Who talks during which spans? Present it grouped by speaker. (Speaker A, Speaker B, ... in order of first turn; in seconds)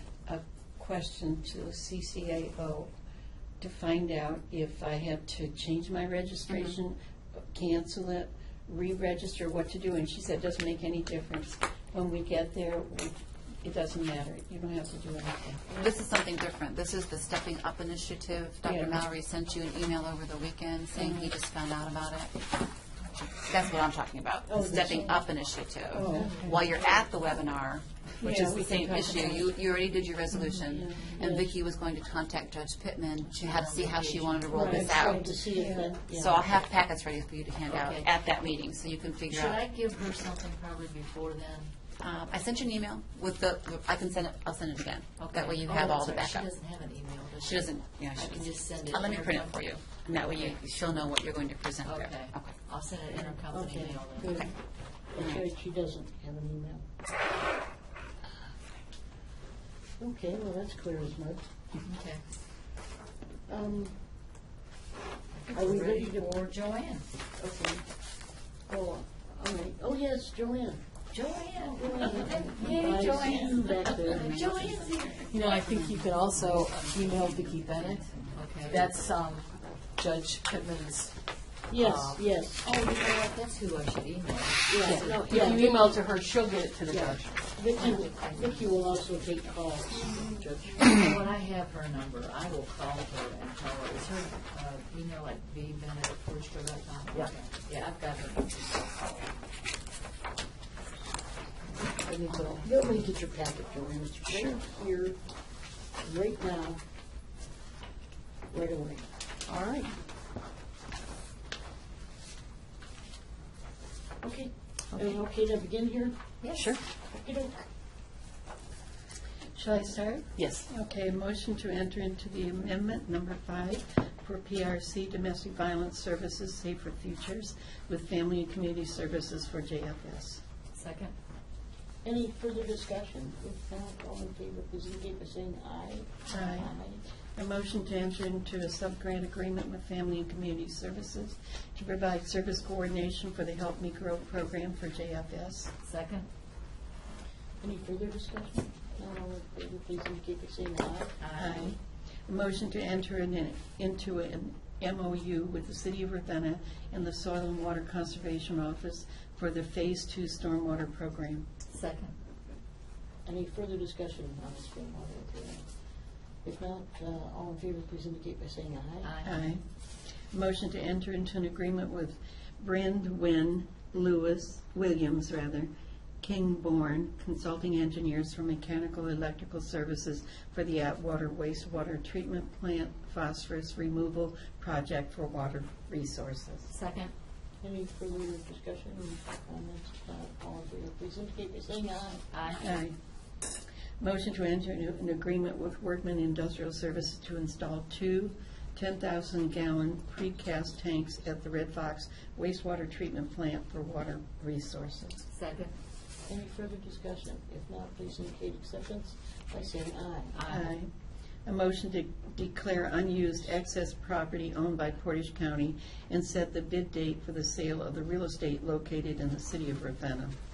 Speaker A: 0.3-2.9, 3.6-15.6, 18.6-19.0, 20.9-21.3, 25.9-26.6, 28.2-29.5, 30.5-31.4, 34.5-36.0, 119.5-130.4, 136.3-136.8, 137.3-145.7, 151.3-161.5, 169.2-169.7, 170.3-175.7, 176.2-186.7, 192.6-193.0, 194.0-205.2, 210.4-210.9, 211.4-220.3
Speaker B: 6.5-6.8, 15.8-35.3, 36.2-39.6, 42.0-46.5, 47.4-52.6, 55.2-55.4, 73.9-75.3, 78.2-78.6
Speaker C: 24.5-25.3, 26.1-27.0, 30.8-31.5, 34.5-36.6, 53.3-56.9, 60.0-61.5, 63.5-64.0, 65.5-66.5, 67.4-67.9, 68.7-70.9, 71.7-74.8, 81.7-82.7, 84.7-86.0, 86.9-90.9, 102.0-106.8, 108.5-109.1, 114.2-117.7, 132.0-137.0, 147.6-151.2, 163.2-169.2, 187.6-192.2, 206.3-210.5
Speaker D: 33.3-35.3, 37.7-38.1, 39.3-41.7, 45.2-50.6, 51.8-54.5, 61.8-62.2, 65.4-67.1, 71.1-78.9, 81.8-85.3, 87.7-89.1, 90.8-98.7, 102.3-102.6, 116.4-116.7, 130.7-131.2, 145.8-146.3, 151.2-151.8, 161.7-162.2, 169.0-169.6, 186.7-187.1, 192.3-192.7, 205.3-205.8, 210.3-210.8
Speaker E: 74.9-78.1, 78.6-81.2, 84.9-87.6, 104.3-104.6, 109.5-110.0, 114.9-115.2, 116.5-116.8, 120.3-120.7